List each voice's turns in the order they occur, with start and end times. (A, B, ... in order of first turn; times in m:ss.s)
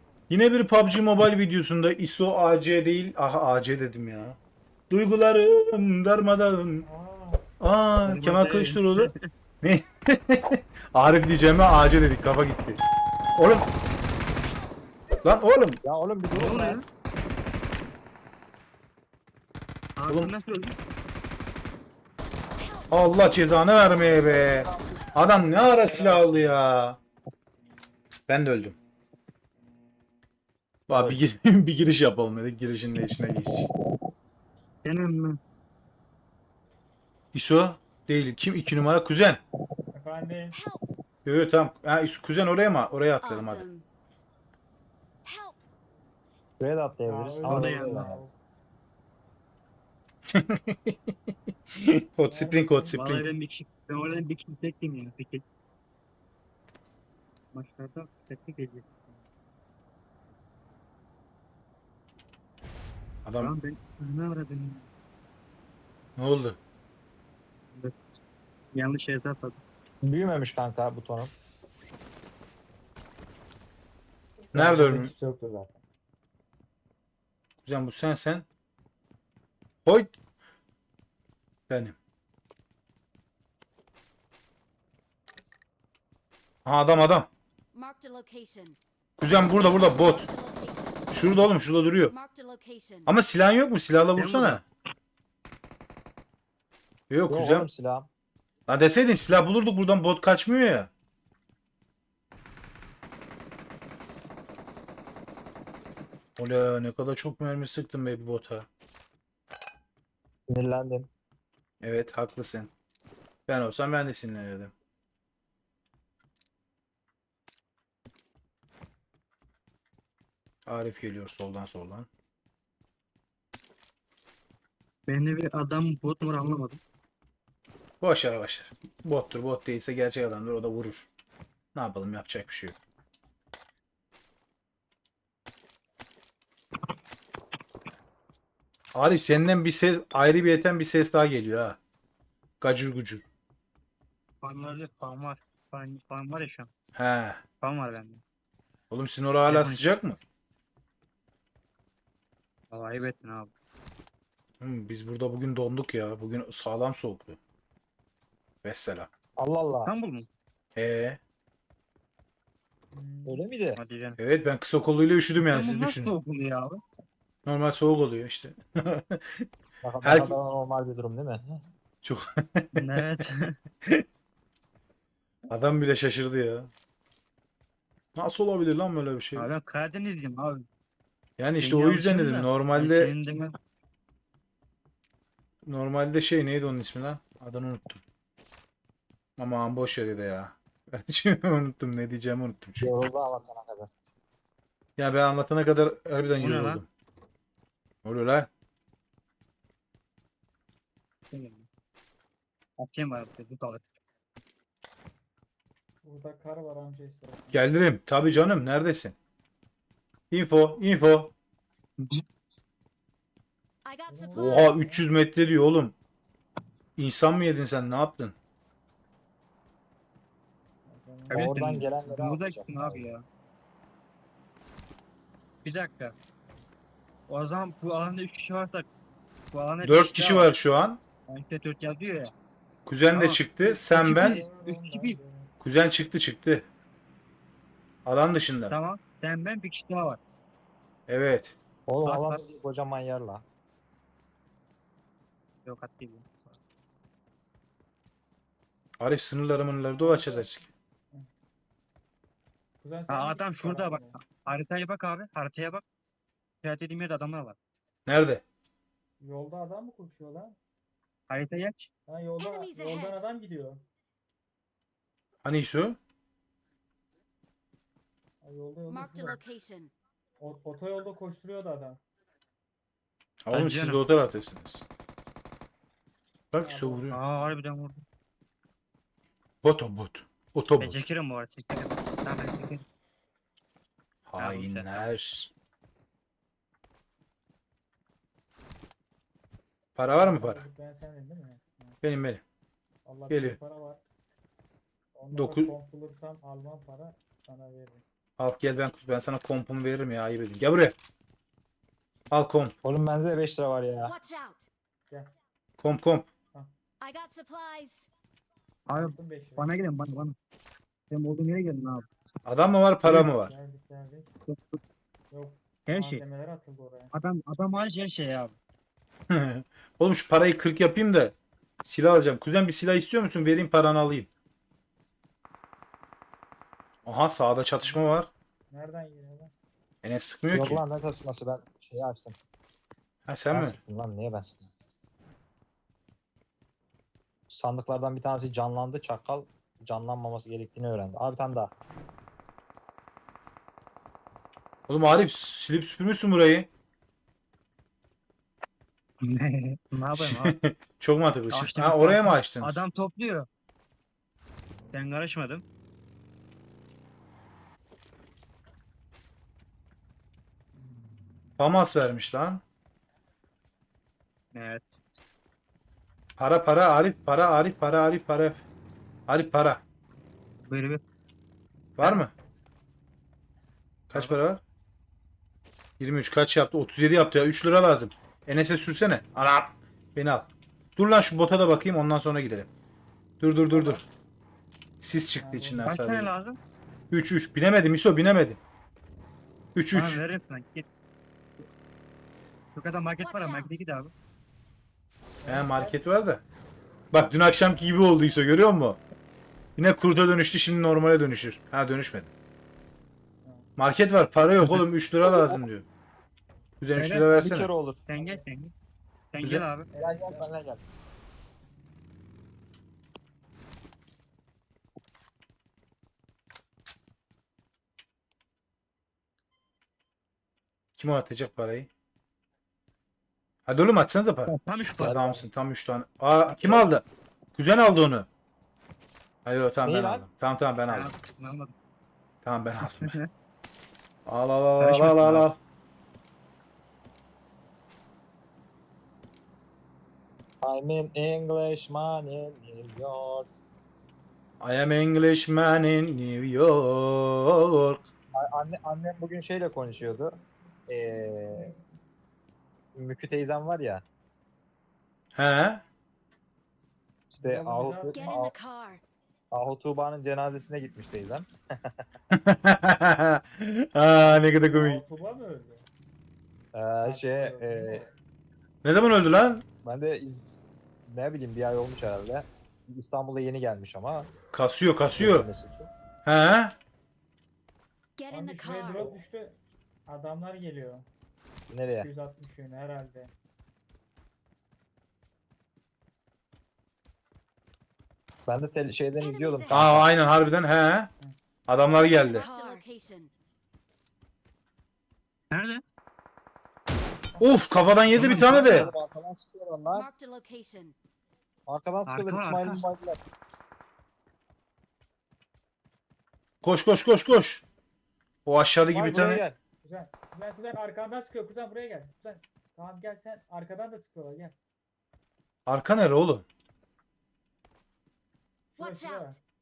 0:00.3-0:04.4 A
0:04.9-0:06.8 A
0:06.8-0:07.4 B
0:07.6-0:12.8 A
0:08.0-0:09.1 C
0:13.4-0:13.7 A
0:15.2-0:15.8 A
0:15.8-0:16.8 D
0:16.3-0:16.8 C
0:20.0-0:20.8 C
0:22.6-0:22.9 E
0:22.9-0:27.0 A
0:23.8-0:26.5 D
0:28.3-0:28.8 A
0:30.9-0:33.7 A
0:34.8-0:35.4 C
0:37.3-0:39.4 A
0:39.9-0:40.6 B
0:40.6-0:40.8 E
0:41.2-0:43.7 A
0:43.2-0:43.8 E
0:45.2-0:45.6 E
0:46.6-0:48.2 D
0:47.0-0:48.4 B
0:47.4-0:48.1 C
0:50.3-0:53.3 A
0:52.3-0:53.0 B
0:52.9-0:55.4 C
0:57.5-0:58.8 C
1:03.2-1:03.5 A
1:03.4-1:04.8 C
1:06.2-1:06.6 A
1:08.7-1:09.6 C
1:10.0-1:11.3 D
1:14.5-1:15.8 B
1:14.5-1:15.1 A
1:17.6-1:18.4 A
1:19.8-1:20.2 A
1:21.7-1:22.0 A
1:26.6-1:27.3 A
1:27.7-1:28.8 E
1:29.2-1:30.3 A
1:29.7-1:31.1 E
1:31.1-1:32.2 A
1:32.1-1:33.1 E
1:33.0-1:34.6 A
1:34.2-1:34.6 C
1:37.1-1:37.7 A
1:37.3-1:38.1 D
1:38.7-1:40.9 A
1:46.4-1:48.7 A
1:50.5-1:51.1 D
1:51.8-1:52.7 A
1:53.5-1:54.7 A
2:00.7-2:02.1 A
2:05.1-2:06.8 C
2:08.0-2:11.1 A
2:11.7-2:12.8 A
2:18.9-2:21.8 A
2:22.6-2:23.2 A
2:24.4-2:26.7 C
2:26.9-2:27.4 A
2:27.6-2:28.2 C
2:28.9-2:30.2 A
2:29.4-2:29.9 C
2:32.7-2:33.5 C
2:34.6-2:37.4 A
2:38.6-2:39.1 A
2:39.4-2:39.9 D
2:39.8-2:40.3 C
2:40.8-2:41.2 A
2:42.9-2:43.4 B
2:43.2-2:43.8 D
2:43.8-2:44.2 C
2:44.2-2:46.1 A
2:45.4-2:46.8 C
2:47.4-2:49.5 A
2:49.8-2:51.6 D
2:50.0-2:50.3 A
2:52.0-2:52.8 A
2:52.8-2:53.5 C
2:55.5-2:56.7 A
2:58.1-2:59.5 A
2:59.3-3:00.7 C
3:01.4-3:03.1 A
3:01.6-3:03.5 C
3:05.6-3:08.0 A
3:09.4-3:12.9 A
3:12.8-3:13.9 D
3:15.0-3:16.9 A
3:16.4-3:16.8 C
3:18.0-3:18.5 A
3:21.3-3:21.7 C
3:22.8-3:23.8 C
3:26.0-3:27.7 B
3:27.5-3:29.2 A
3:30.3-3:31.3 A
3:33.8-3:34.8 E
3:34.1-3:35.1 B
3:34.4-3:35.9 A
3:37.0-3:38.4 A
3:40.8-3:41.5 B
3:41.3-3:43.1 D
3:41.3-3:43.2 C
3:45.6-3:46.1 C
3:47.3-3:48.9 C
3:49.5-3:50.5 C
3:49.8-3:51.0 A
3:51.3-3:52.3 C
3:52.8-3:54.4 A
3:53.1-3:55.2 C
3:54.0-3:55.5 B
3:55.6-3:56.7 A
3:58.0-3:58.8 A
3:58.7-4:00.2 C
4:01.1-4:01.5 A
4:01.9-4:03.4 D
4:02.0-4:02.4 C
4:05.6-4:06.5 C
4:09.0-4:10.7 A
4:09.9-4:10.5 B
4:12.8-4:14.2 B
4:13.1-4:15.8 C
4:16.6-4:17.6 C
4:18.0-4:18.4 A
4:19.2-4:20.6 B
4:21.3-4:21.9 C
4:22.1-4:23.8 B
4:22.4-4:23.2 E
4:25.4-4:26.0 A
4:28.4-4:29.4 B
4:28.9-4:29.9 E
4:30.4-4:32.0 B
4:33.4-4:34.8 A
4:33.5-4:34.0 C
4:36.5-4:37.2 A
4:36.6-4:37.2 B
4:37.1-4:38.0 C
4:39.6-4:41.0 A
4:40.8-4:42.8 C
4:44.3-4:45.5 A
4:44.4-4:45.1 C
4:49.9-4:50.6 A
4:50.1-4:52.0 B
4:52.0-4:52.4 A
4:53.0-4:54.0 B
4:53.3-4:53.6 A
4:55.2-4:58.0 B
4:55.3-4:55.7 A
4:58.4-5:01.0 A
5:02.3-5:02.7 A
5:02.8-5:04.2 D
5:04.0-5:04.7 E
5:05.8-5:06.3 A
5:07.0-5:08.1 E
5:08.9-5:10.4 C
5:08.9-5:09.7 B
5:11.1-5:12.1 C
5:12.4-5:13.5 A
5:13.0-5:14.3 B
5:14.5-5:14.8 C
5:15.3-5:17.1 B
5:15.8-5:16.2 C
5:17.1-5:18.6 C
5:19.3-5:24.3 A
5:27.0-5:28.3 A
5:28.7-5:29.5 B
5:30.0-5:30.8 A
5:30.5-5:32.4 D
5:33.2-5:33.8 A
5:33.5-5:34.7 D
5:37.5-5:41.7 D
5:44.9-5:46.7 A
5:49.2-5:50.6 C
5:50.2-5:52.8 A
5:51.5-5:53.5 C
5:54.9-5:55.6 C
6:01.6-6:02.6 A
6:04.5-6:04.9 C
6:06.4-6:08.6 A
6:09.3-6:09.8 A
6:10.7-6:11.0 C
6:12.0-6:12.3 A
6:12.0-6:12.2 C
6:14.1-6:14.6 A
6:14.1-6:14.4 C
6:16.0-6:22.7 A
6:23.4-6:24.0 A
6:25.0-6:26.3 A
6:25.4-6:26.0 B
6:25.8-6:26.6 C
6:27.1-6:28.6 A
6:29.7-6:30.2 A
6:29.9-6:30.9 C
6:32.7-6:34.1 C
6:33.2-6:33.8 E
6:35.4-6:36.0 B
6:35.5-6:36.4 A
6:37.1-6:39.0 A
6:39.8-6:42.3 A
6:43.8-6:45.8 A
6:45.2-6:45.6 D
6:46.8-6:47.7 A
6:46.9-6:47.4 C
6:47.3-6:48.0 D
6:48.0-6:48.7 C
6:48.1-6:48.4 B
6:49.3-6:49.8 C
6:49.4-6:49.7 A
6:49.9-6:50.5 B
6:50.0-6:50.8 D
7:01.0-7:01.9 A
7:03.6-7:08.3 A
7:04.5-7:05.3 C
7:05.0-7:05.4 D
7:06.5-7:06.8 C
7:09.4-7:11.1 A
7:09.8-7:10.3 D
7:10.9-7:11.7 C
7:12.4-7:13.2 A
7:12.8-7:13.3 C
7:14.2-7:15.6 A
7:14.8-7:15.5 C
7:20.6-7:23.5 D
7:24.6-7:28.0 A
7:28.4-7:30.4 D
7:30.9-7:31.7 D
7:33.0-7:34.0 D
7:35.3-7:35.8 A
7:37.3-7:38.5 D
7:37.4-7:38.4 B
7:38.1-7:39.0 E
7:39.5-7:42.0 D
7:42.3-7:45.0 A
7:44.2-7:45.9 B
7:46.7-7:48.0 D
7:47.0-7:48.1 B
7:48.8-7:49.6 A
7:49.8-7:50.4 D
7:51.1-7:54.3 D
7:54.5-7:55.5 A
7:55.1-7:55.9 D
7:56.2-7:56.8 A
7:58.2-7:59.1 E
7:58.3-8:01.1 B
8:01.7-8:02.1 D
8:02.0-8:03.3 B
8:08.5-8:10.1 D
8:09.2-8:09.8 E
8:09.7-8:11.1 A
8:11.7-8:12.5 A
8:11.9-8:13.3 E
8:15.5-8:15.8 C
8:17.3-8:18.5 B
8:17.4-8:18.9 A
8:18.1-8:18.9 C
8:18.2-8:20.1 D
8:19.9-8:21.0 E
8:21.7-8:23.2 D
8:22.1-8:22.8 C
8:26.6-8:27.6 A
8:28.4-8:29.4 A
8:28.9-8:29.6 D
8:29.8-8:34.6 B
8:35.6-8:36.4 A
8:38.7-8:39.4 B
8:38.8-8:39.4 E